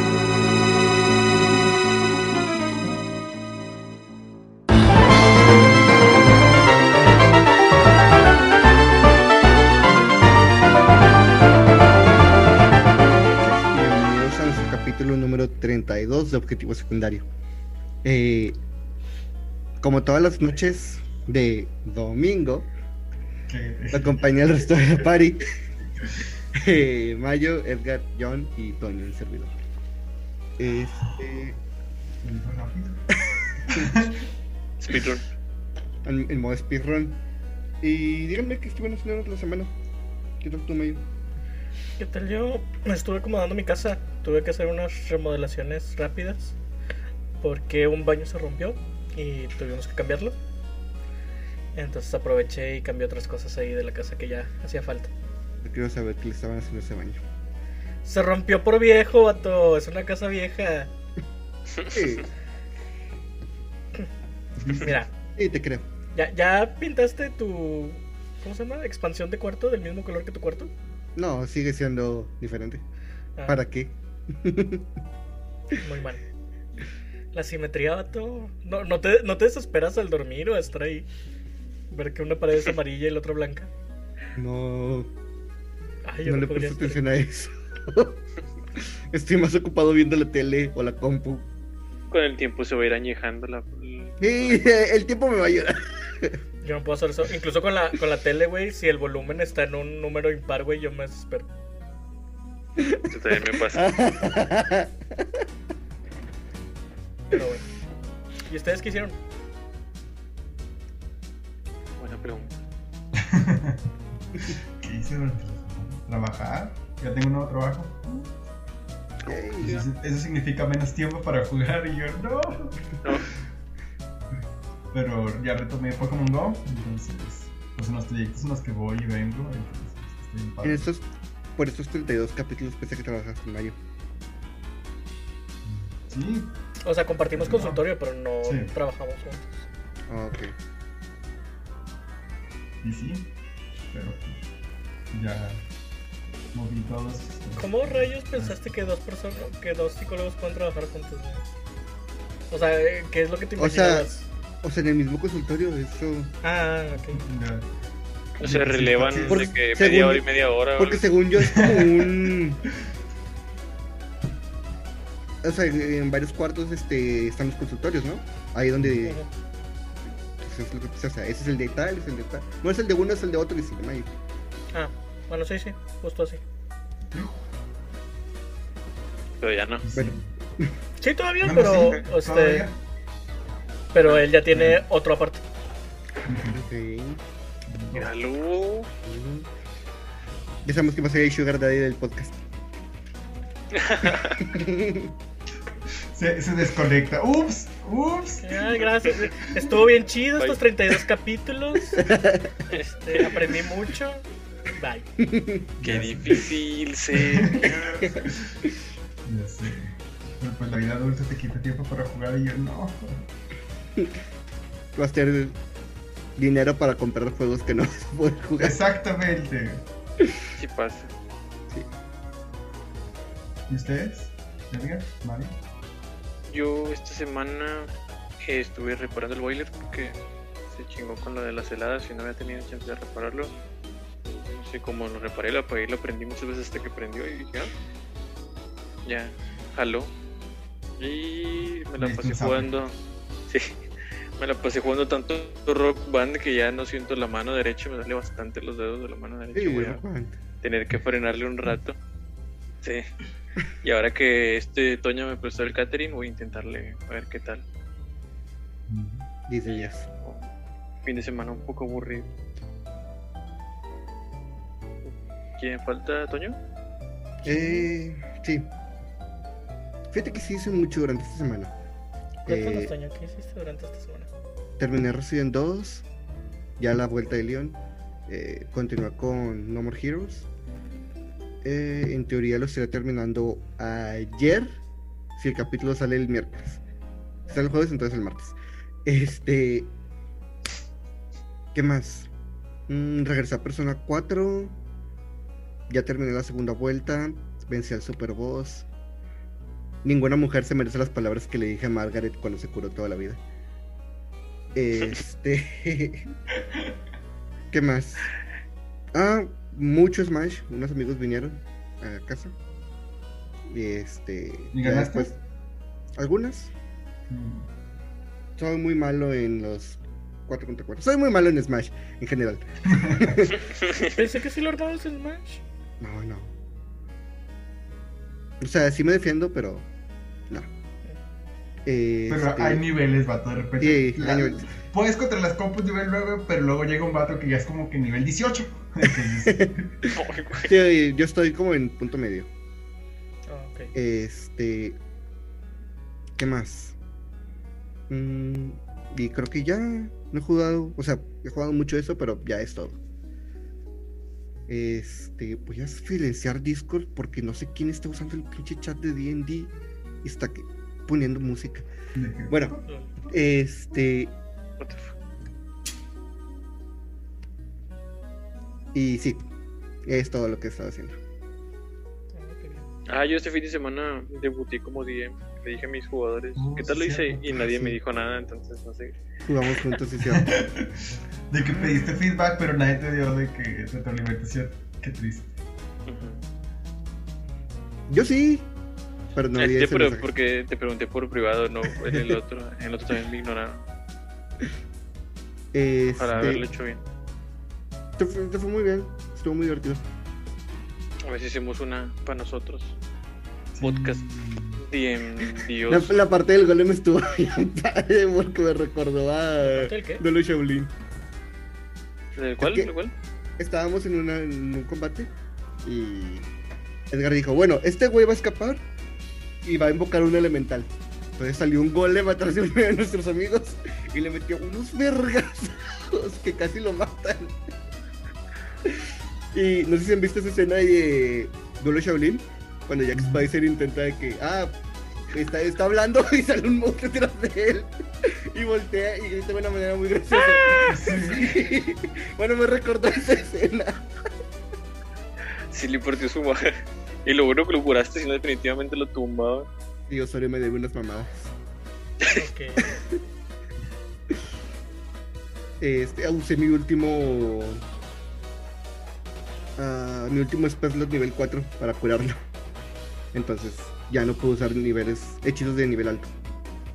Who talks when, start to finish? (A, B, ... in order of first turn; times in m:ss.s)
0:12.9-0:17.3 A
0:18.0-0:18.6 A
0:19.8-0:22.7 A
0:23.5-0:24.3 B
0:23.9-0:25.5 A
0:26.5-0:29.5 A
0:30.6-0:31.6 A
0:32.2-0:33.0 B
0:33.3-0:34.0 A
0:33.7-0:34.2 B
0:34.8-0:35.3 C
0:36.0-0:37.2 A
0:37.8-0:39.7 A
0:40.4-0:41.0 A
0:42.0-0:46.6 D
0:47.4-0:50.4 D
0:51.8-0:55.1 D
0:55.6-0:57.2 A
0:58.0-1:00.9 D
1:01.8-1:02.1 C
1:01.9-1:02.3 A
1:04.6-1:04.9 B
1:04.7-1:05.1 D
1:05.4-1:05.8 A
1:06.2-1:10.7 D
1:11.2-1:12.8 A
1:13.5-1:14.8 A
1:15.8-1:16.2 D
1:17.3-1:21.1 D
1:21.9-1:23.7 D
1:24.4-1:25.1 A
1:26.0-1:27.0 D
1:26.2-1:28.2 A
1:28.8-1:31.5 A
1:32.1-1:34.7 C
1:34.2-1:36.4 A
1:36.6-1:41.5 D
1:42.8-1:45.4 A
1:43.1-1:43.9 C
1:47.3-1:47.7 D
1:48.5-1:49.2 D
1:52.0-1:52.6 C
1:53.2-1:53.8 B
1:54.4-1:58.3 B
1:59.2-1:59.8 A
1:59.6-2:03.0 B
2:03.0-2:03.3 C
2:04.9-2:10.9 B
2:10.6-2:11.0 A
2:11.6-2:13.8 A
2:15.6-2:16.5 B
2:16.8-2:19.6 D
2:17.3-2:17.9 B
2:18.4-2:18.7 B
2:20.1-2:20.5 A
2:22.8-2:23.3 B
2:23.9-2:24.4 B
2:25.1-2:25.6 B
2:26.5-2:28.6 B
2:27.6-2:31.5 D
2:32.5-2:34.3 D
2:33.6-2:34.1 A
2:34.6-2:36.3 A
2:36.4-2:37.2 D
2:37.1-2:37.7 B
2:38.4-2:41.1 C
2:38.4-2:39.5 B
2:39.3-2:40.3 A
2:40.8-2:42.6 A
2:41.4-2:42.3 B
2:45.4-2:49.2 A
2:50.4-2:54.1 A
2:54.7-2:56.4 D
2:59.4-2:59.8 C
2:59.8-3:00.3 B
2:59.9-3:00.7 A
3:01.0-3:02.7 D
3:01.4-3:02.8 B
3:03.9-3:05.4 D
3:04.5-3:04.8 B
3:06.2-3:06.6 B
3:06.5-3:07.2 A
3:07.7-3:08.1 B
3:07.9-3:08.9 C
3:09.1-3:09.5 A
3:10.6-3:12.4 A
3:13.7-3:14.4 C
3:14.2-3:15.1 A
3:16.1-3:19.8 B
3:18.4-3:22.1 D
3:22.0-3:22.6 A
3:22.7-3:23.5 C
3:22.7-3:25.1 D
3:25.2-3:25.7 A
3:25.8-3:26.5 B
3:25.8-3:28.1 C
3:27.2-3:28.6 B
3:29.2-3:33.2 B
3:35.0-3:35.6 A
3:36.4-3:38.8 A
3:38.6-3:39.8 B
3:40.6-3:41.1 C
3:43.7-3:45.5 B
3:46.5-3:47.9 C
3:48.4-3:50.2 C
3:50.7-3:53.5 C
3:54.3-3:57.7 C
3:59.0-4:00.1 C
4:01.0-4:03.0 C
4:02.0-4:02.8 B
4:03.5-4:03.8 C
4:04.4-4:10.0 C
4:09.5-4:10.4 A
4:10.6-4:12.0 C
4:13.8-4:17.6 C
4:18.9-4:19.3 B
4:19.5-4:20.1 A
4:19.6-4:20.5 C
4:21.0-4:22.3 C
4:25.0-4:26.6 C
4:27.4-4:27.9 D
4:27.4-4:28.7 A
4:30.1-4:31.7 A
4:32.4-4:32.9 A
4:32.5-4:34.3 D
4:34.8-4:36.1 A
4:36.8-4:40.5 A
4:41.6-4:44.7 A
4:45.4-4:46.8 A
4:47.5-4:49.9 A
4:51.7-4:52.3 A
4:52.9-4:54.8 A
4:55.9-4:58.9 A
5:00.0-5:03.4 A
5:04.8-5:06.2 A
5:07.7-5:08.3 A
5:09.1-5:12.5 A
5:13.7-5:15.4 A
5:14.7-5:15.3 B
5:16.2-5:16.7 A
5:17.3-5:17.7 B
5:18.6-5:23.7 A
5:22.9-5:23.4 B
5:23.7-5:24.2 C
5:24.0-5:25.6 D
5:26.0-5:26.5 A
5:28.6-5:29.9 A
5:31.8-5:32.8 A
5:32.3-5:39.9 B
5:33.8-5:34.7 A
5:39.2-5:39.7 A
5:40.1-5:40.8 C
5:40.6-5:42.5 A
5:43.5-5:43.9 D
5:44.0-5:45.0 A
5:46.4-5:47.0 A
5:48.1-5:53.0 A
5:54.7-6:01.9 A
6:02.2-6:02.8 B
6:02.5-6:04.4 A
6:02.8-6:03.1 D
6:04.8-6:05.1 C
6:08.9-6:09.4 A
6:10.1-6:11.2 A
6:12.3-6:12.9 D
6:13.1-6:19.2 C
6:16.6-6:17.8 B
6:17.7-6:18.0 A
6:19.4-6:20.5 A
6:20.2-6:25.5 B
6:26.1-6:26.4 C
6:28.1-6:28.7 A
6:29.4-6:30.3 A
6:29.6-6:33.8 C
6:32.0-6:32.4 A
6:35.7-6:36.7 A
6:36.2-6:37.0 C
6:38.2-6:40.0 A
6:41.3-6:43.0 C
6:43.7-6:44.8 B
6:43.8-6:44.2 C
6:44.8-6:46.2 C
6:45.8-6:50.9 A
6:49.6-6:50.2 D
6:52.4-6:53.1 C
6:52.6-6:52.9 A
6:53.6-6:55.3 A
6:55.8-6:56.5 A
6:57.1-6:58.8 A
6:59.6-7:07.6 A
7:08.8-7:14.8 A
7:13.2-7:13.5 B
7:15.3-7:24.0 A
7:20.3-7:21.0 D
7:20.9-7:21.6 B
7:25.7-7:26.7 C
7:27.2-7:29.7 C
7:30.1-7:31.6 A
7:32.3-7:32.9 D
7:35.8-7:37.8 A
7:39.8-7:42.4 A
7:43.3-7:46.3 A